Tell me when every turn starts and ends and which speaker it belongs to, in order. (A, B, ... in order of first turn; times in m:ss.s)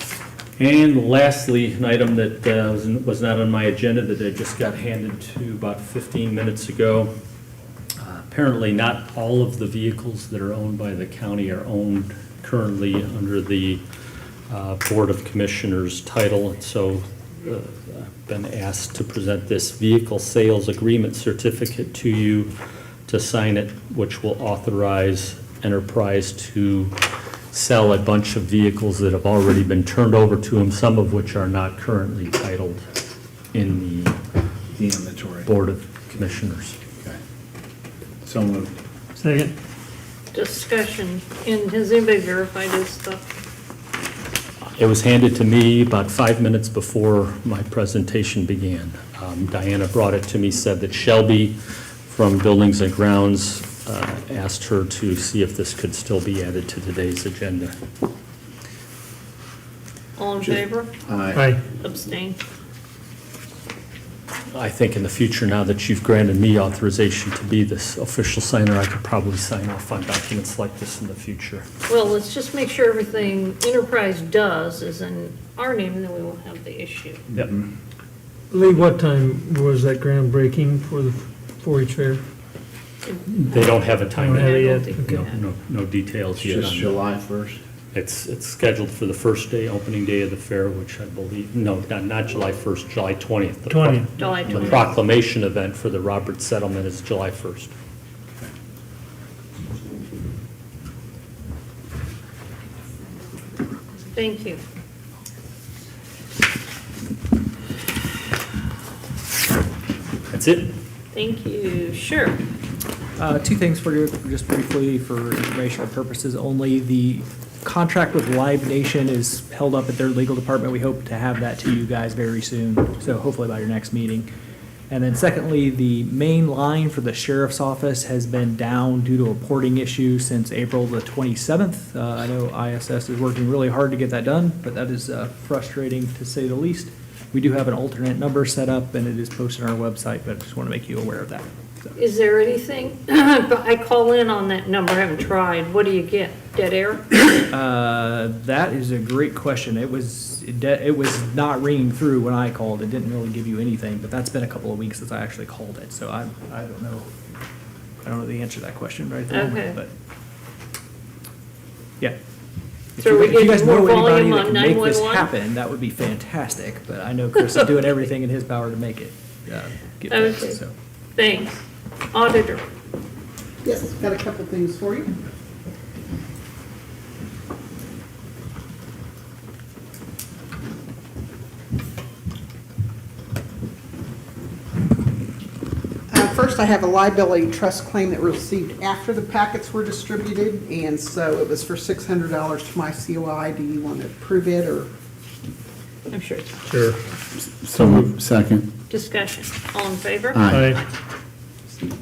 0:00.6-0:07.1 A
0:08.0-0:13.8 A
0:14.5-0:22.5 A
0:23.1-0:27.0 A
0:27.5-0:32.8 A
0:33.5-0:34.2 A
0:34.8-0:35.5 B
0:35.4-0:36.8 A
0:38.2-0:38.7 B
0:39.2-0:39.5 C
0:40.3-0:43.2 D
0:44.8-0:57.7 A
1:00.2-1:00.9 D
1:01.1-1:01.5 B
1:01.4-1:01.6 C
1:01.8-1:02.4 D
1:04.5-1:11.7 A
1:11.9-1:17.2 D
1:17.3-1:17.7 B
1:18.5-1:22.2 C
1:23.1-1:25.3 D
1:23.3-1:27.0 A
1:24.2-1:25.3 C
1:26.4-1:27.6 B
1:27.9-1:37.7 A
1:33.7-1:34.1 C
1:34.2-1:34.9 D
1:44.2-1:44.6 D
1:50.3-1:50.7 A
1:51.1-1:52.4 D
1:53.2-2:04.3 E
2:04.9-2:21.9 E
2:22.0-2:27.4 D
2:27.5-2:37.1 E
2:38.0-2:39.9 E
2:39.3-2:39.8 D
2:43.0-2:50.7 E
2:43.0-2:45.3 D
2:50.1-2:50.6 D
2:51.2-2:52.6 D
2:53.6-2:55.1 F
3:06.1-3:14.9 F
3:16.1-3:16.9 D
3:16.7-3:17.0 C
3:17.4-3:18.7 B
3:17.8-3:18.1 C
3:18.9-3:20.4 D
3:20.3-3:20.8 B
3:20.5-3:20.8 C